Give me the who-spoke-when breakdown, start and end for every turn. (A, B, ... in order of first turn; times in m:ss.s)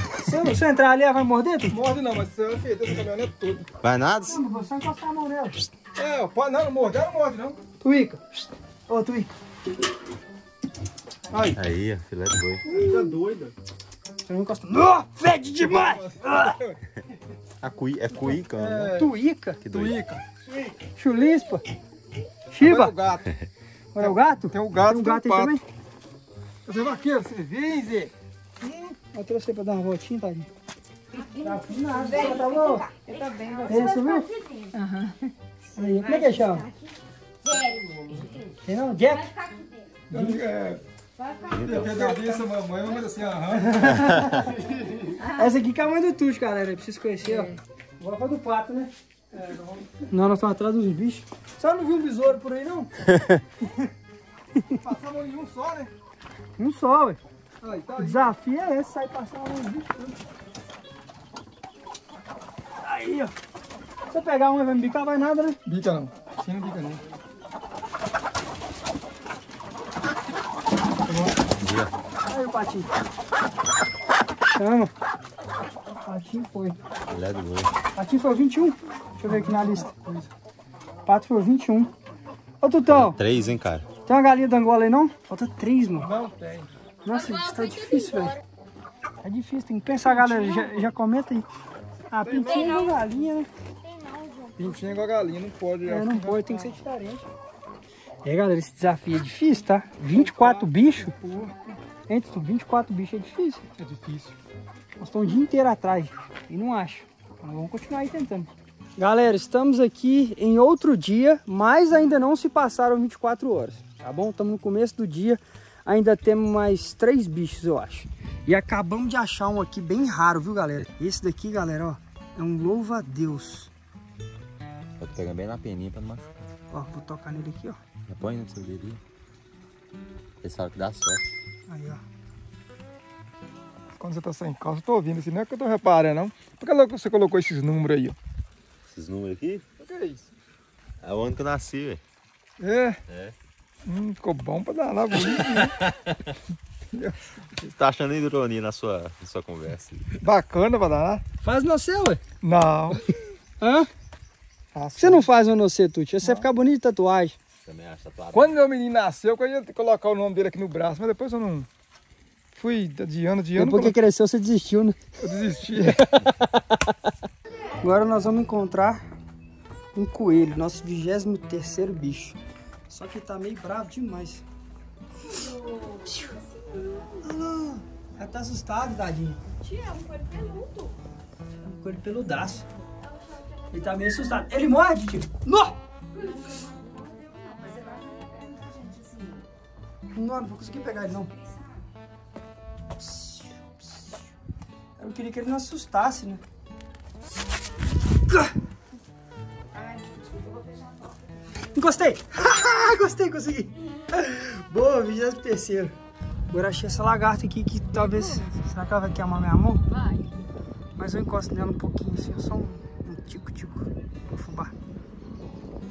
0:00.2-0:01.8 A
0:01.7-0:03.7 B
0:03.8-0:04.4 C
0:04.2-0:05.7 A
0:06.0-0:07.6 B
0:07.8-0:09.3 A
0:11.3-0:11.6 B
0:11.5-0:12.6 C
0:12.7-0:13.5 B
0:12.7-0:13.2 A
0:14.3-0:16.6 A
0:15.5-0:16.8 B
0:17.6-0:19.0 C
0:18.4-0:19.2 B
0:18.9-0:19.6 A
0:19.6-0:20.0 C
0:19.7-0:20.2 B
0:20.9-0:21.6 A
0:22.5-0:23.0 A
0:22.6-0:23.3 B
0:23.9-0:25.6 A
0:24.0-0:25.6 B
0:26.6-0:29.0 B
0:29.1-0:30.5 A
0:31.1-0:35.3 D
0:31.3-0:32.9 A
0:33.6-0:34.3 A
0:35.7-0:36.7 A
0:35.9-0:36.9 D
0:37.4-0:38.5 D
0:37.5-0:38.4 B
0:38.6-0:39.3 A
0:39.1-0:39.9 D
0:40.1-0:40.8 B
0:40.1-0:40.4 A
0:41.2-0:42.2 D
0:41.5-0:45.0 B
0:41.6-0:41.8 C
0:43.5-0:44.5 A
0:45.2-0:48.9 A
0:49.3-0:49.9 B
0:50.0-0:52.9 A
0:53.1-0:53.4 C
0:54.8-0:55.9 B
0:56.6-0:57.2 A
0:57.6-0:58.3 B
0:58.0-1:00.2 A
1:02.8-1:03.3 A
1:04.1-1:05.6 A
1:05.6-1:07.0 B
1:11.1-1:11.3 B
1:11.6-1:11.9 C
1:12.3-1:12.9 A
1:14.5-1:14.9 A
1:16.0-1:16.8 A
1:17.1-1:17.7 C
1:17.9-1:19.9 A
1:19.3-1:20.2 B
1:21.0-1:21.9 A
1:22.6-1:23.2 A
1:22.9-1:23.9 C
1:24.0-1:26.1 A
1:26.0-1:26.7 B
1:27.0-1:28.4 A
1:27.6-1:28.3 D
1:29.2-1:31.5 A
1:30.1-1:30.7 B
1:32.1-1:33.5 A
1:32.2-1:33.0 B
1:32.4-1:33.0 D
1:33.8-1:35.0 D
1:34.6-1:36.8 B
1:35.8-1:37.3 A
1:38.2-1:41.2 A
1:40.1-1:41.6 B
1:42.1-1:43.6 A
1:43.8-1:44.4 B
1:45.0-2:03.7 A
2:05.0-2:06.5 C
2:06.7-2:07.8 A
2:08.1-2:09.0 C
2:10.4-2:11.2 C
2:11.7-2:12.0 A
2:14.0-2:18.2 B
2:18.9-2:19.6 C
2:19.8-2:20.3 B
2:21.0-2:22.0 C
2:22.6-2:23.0 B
2:23.1-2:23.3 C
2:23.8-2:25.8 B
2:25.6-2:26.2 C
2:26.9-2:27.2 B
2:27.6-2:30.1 C
2:30.2-2:31.2 B
2:31.4-2:32.2 A
2:32.4-2:33.0 B
2:33.6-2:33.9 A
2:34.7-2:35.3 B
2:35.0-2:37.4 A
2:36.2-2:36.5 B
2:37.6-2:38.6 C
2:38.3-2:41.7 B
2:42.5-2:44.0 B
2:43.6-2:45.0 A
2:45.2-2:46.0 B
2:45.8-2:47.0 A
2:47.8-2:49.0 A
2:49.9-2:52.4 A
2:52.9-2:54.4 A
2:55.3-2:57.3 D
2:56.1-2:56.3 A
2:57.2-2:59.4 A
2:59.6-3:01.0 D
3:01.6-3:02.6 A
3:02.9-3:04.4 D
3:03.7-3:05.8 A
3:06.1-3:09.5 D
3:10.1-3:11.3 A
3:11.2-3:11.9 D
3:13.0-3:14.1 A
3:15.0-3:16.4 A
3:19.7-3:21.3 D
3:21.7-3:26.0 A
3:26.5-3:29.8 A
3:28.0-3:28.6 D
3:29.9-3:30.3 D
3:31.0-3:34.7 A